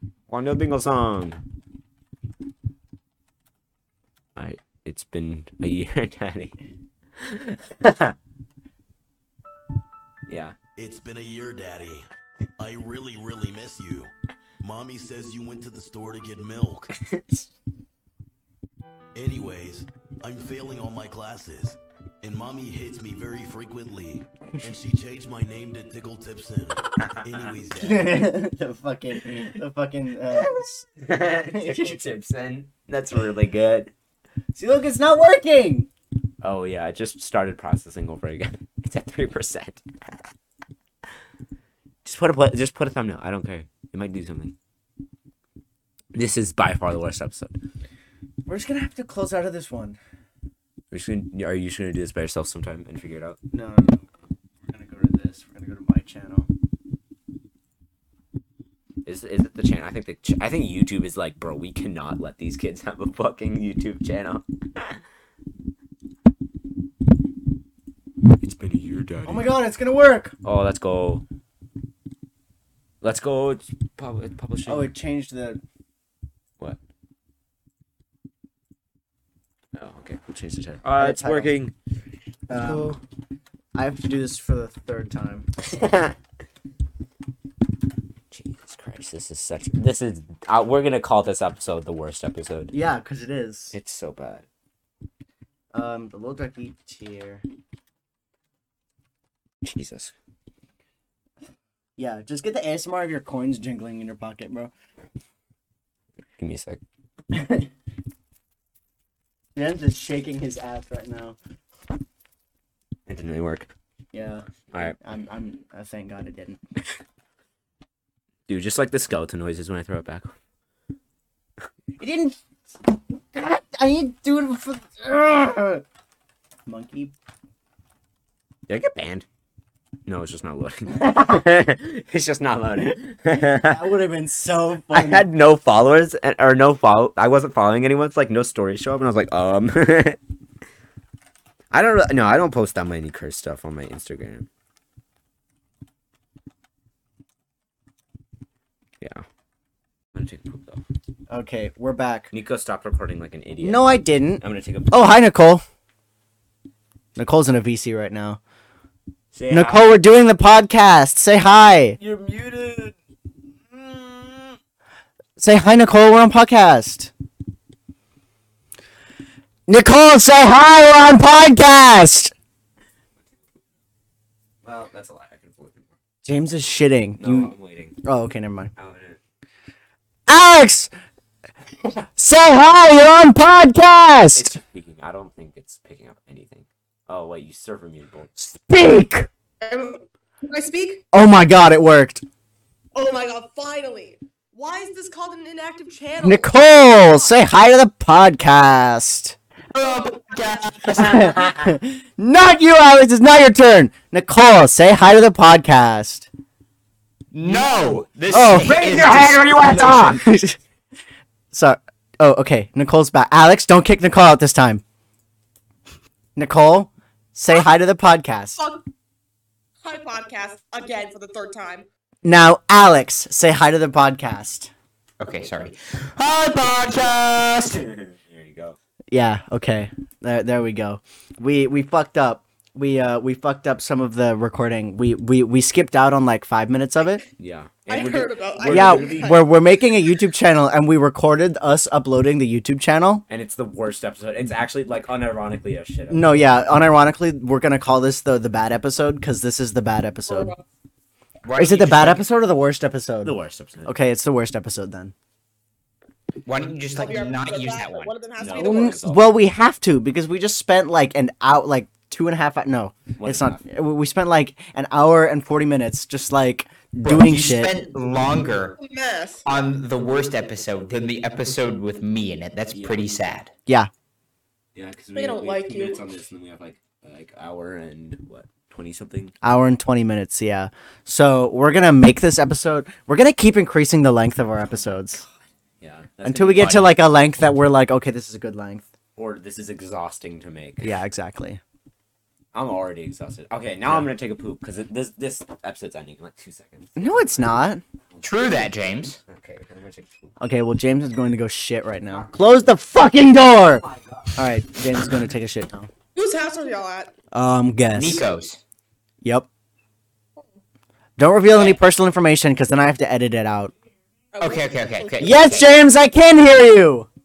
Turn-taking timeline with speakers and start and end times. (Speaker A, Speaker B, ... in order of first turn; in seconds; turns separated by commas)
Speaker A: 0.3-1.4, Speaker A: 4.4-6.6, Speaker A: 7.2-8.2, Speaker A: 10.3-10.6, Speaker B: 10.8-12.1, Speaker B: 12.6-16.9, Speaker A: 17.1-17.4, Speaker B: 19.1-28.3, Speaker C: 27.8-30.8, Speaker A: 30.3-33.9, Speaker C: 31.5-32.0, Speaker C: 34.5-35.9, Speaker A: 36.4-40.2, Speaker A: 42.0-44.5, Speaker A: 46.1-47.6, Speaker C: 48.5-50.0, Speaker A: 50.9-53.4, Speaker C: 53.5-54.1, Speaker C: 54.6-56.5, Speaker A: 59.0-65.0, Speaker A: 68.3-69.5, Speaker C: 69.3-70.3, Speaker A: 70.4-71.2, Speaker A: 73.0-74.9, Speaker C: 74.7-75.6, Speaker A: 79.7-81.7, Speaker C: 81.0-81.5, Speaker C: 82.5-83.0, Speaker A: 82.5-83.0, Speaker C: 83.7-85.5, Speaker A: 85.6-86.2, Speaker A: 88.3-92.7, Speaker C: 92.7-93.7, Speaker A: 93.7-94.5, Speaker C: 95.7-97.4, Speaker A: 99.6-100.1, Speaker C: 102.0-104.7, Speaker A: 106.4-106.8, Speaker C: 107.3-107.7, Speaker C: 109.6-111.4, Speaker A: 113.1-113.7, Speaker C: 114.1-116.6, Speaker A: 118.5-120.3, Speaker C: 122.0-125.8, Speaker C: 126.7-127.1, Speaker A: 128.7-129.3, Speaker A: 130.1-133.9, Speaker C: 133.6-135.3, Speaker A: 134.9-140.2, Speaker A: 141.7-144.5, Speaker A: 150.1-150.8, Speaker C: 151.3-152.3, Speaker A: 152.3-155.1, Speaker C: 153.6-155.6, Speaker C: 157.2-158.4, Speaker A: 159.3-159.9, Speaker C: 159.5-162.0, Speaker A: 162.0-162.9, Speaker A: 163.7-164.6, Speaker C: 165.4-167.1, Speaker C: 169.7-172.3, Speaker A: 174.6-175.9, Speaker C: 176.2-177.5, Speaker A: 177.2-178.0, Speaker C: 178.1-178.7, Speaker A: 178.8-179.2, Speaker C: 180.3-180.9, Speaker C: 182.2-184.6, Speaker A: 184.3-188.3, Speaker C: 188.4-189.3, Speaker D: 189.6-191.0, Speaker C: 191.1-192.2, Speaker D: 192.9-197.3, Speaker C: 196.2-199.4, Speaker E: 199.7-201.3, Speaker D: 199.8-200.6, Speaker C: 200.9-206.3, Speaker E: 207.3-210.1, Speaker C: 208.3-209.0, Speaker A: 208.4-210.2, Speaker C: 209.7-210.6, Speaker C: 211.5-214.8, Speaker C: 216.4-218.6, Speaker D: 218.6-218.8, Speaker D: 219.8-221.9, Speaker C: 222.2-224.7, Speaker E: 225.2-227.8, Speaker A: 227.7-228.8, Speaker C: 229.1-237.2, Speaker A: 237.4-239.4, Speaker D: 237.9-239.5, Speaker C: 238.7-243.2, Speaker A: 243.3-246.5, Speaker C: 246.1-250.6, Speaker D: 250.3-250.6, Speaker E: 251.4-252.2, Speaker C: 251.6-255.1, Speaker A: 253.2-254.0, Speaker E: 256.4-258.2, Speaker D: 256.9-259.0, Speaker A: 258.4-259.3, Speaker C: 258.6-267.7, Speaker A: 263.2-263.6, Speaker E: 267.0-268.7, Speaker D: 268.8-269.5, Speaker E: 269.4-273.5, Speaker A: 272.7-273.1, Speaker A: 274.7-279.4, Speaker D: 275.1-276.0, Speaker C: 279.4-285.2, Speaker A: 285.8-286.9, Speaker C: 286.2-288.9, Speaker A: 289.1-291.0, Speaker C: 290.8-291.6, Speaker A: 292.5-297.6, Speaker C: 296.9-297.8, Speaker A: 298.1-298.7, Speaker E: 298.2-299.2, Speaker A: 299.3-300.3, Speaker C: 300.4-303.9, Speaker A: 303.8-304.3, Speaker C: 304.4-305.9, Speaker D: 306.1-307.1, Speaker C: 307.3-308.2, Speaker E: 307.9-308.6, Speaker C: 309.2-309.5, Speaker C: 311.2-313.7, Speaker D: 314.3-315.6, Speaker E: 314.4-315.7, Speaker C: 315.2-317.1